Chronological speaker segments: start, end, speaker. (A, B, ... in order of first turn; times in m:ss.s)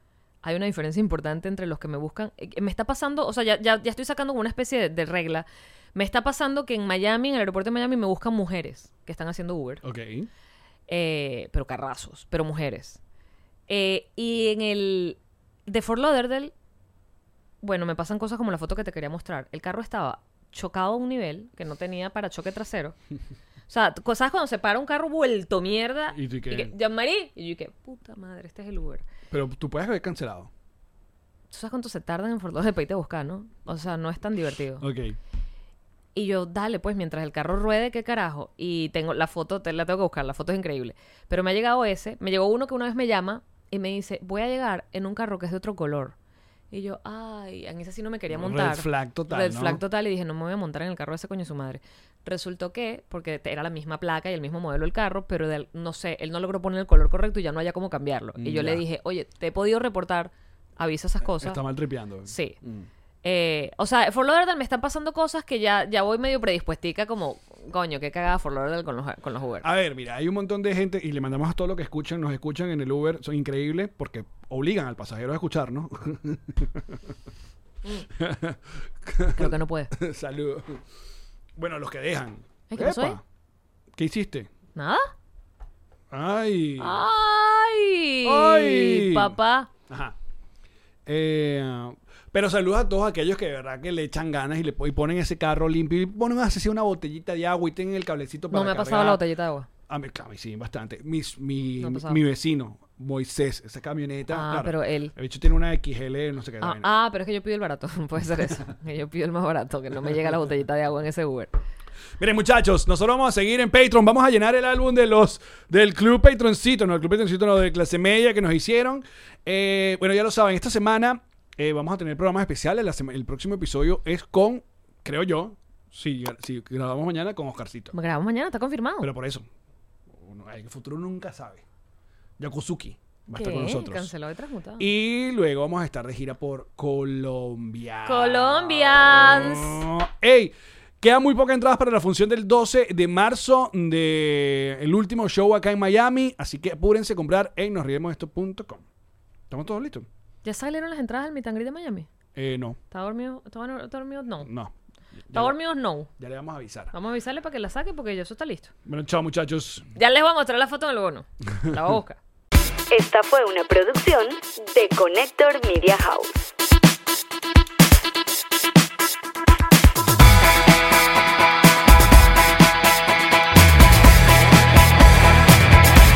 0:00.4-0:09.8 A
0:09.8-0:10.3 B
0:10.9-0:13.0 A
0:13.7-0:16.5 A
0:17.6-0:23.0 A
0:23.7-0:29.0 A
0:26.1-0:26.7 B
0:29.3-0:30.5 B
0:31.5-0:34.9 A
0:34.8-0:35.2 B
0:36.1-0:46.2 A
0:46.7-1:01.6 A
0:48.3-0:49.8 B
0:58.4-0:58.8 B
1:01.2-1:02.9 B
1:02.3-1:02.6 A
1:03.2-1:09.7 A
1:09.6-1:17.1 B
1:18.1-1:20.8 B
1:19.4-1:19.9 A
1:21.6-1:23.2 B
1:22.7-1:23.2 A
1:24.0-1:24.5 B
1:24.7-1:25.1 A
1:26.1-1:27.0 B
1:26.8-1:29.7 A
1:28.2-1:29.3 B
1:29.9-1:30.2 B
1:31.0-1:39.2 B
1:38.5-1:39.7 A
1:39.9-1:46.9 B
1:41.8-1:42.2 A
1:44.3-1:45.1 A
1:46.6-1:51.6 A
1:52.2-2:07.9 B
2:07.9-2:09.1 A
2:09.0-2:09.4 B
2:10.1-2:11.6 B
2:12.4-2:14.1 B
2:13.3-2:14.9 A
2:14.8-2:28.8 B
2:18.0-2:19.8 A
2:29.5-2:30.1 B
2:30.4-2:32.1 A
2:32.4-2:32.8 B
2:32.9-2:34.5 A
2:34.4-2:35.6 B
2:35.3-2:36.1 A
2:36.1-2:36.9 B
2:36.9-2:38.7 A
2:38.8-2:39.9 B
2:40.0-2:42.2 A
2:41.6-2:41.9 B
2:42.9-2:46.5 C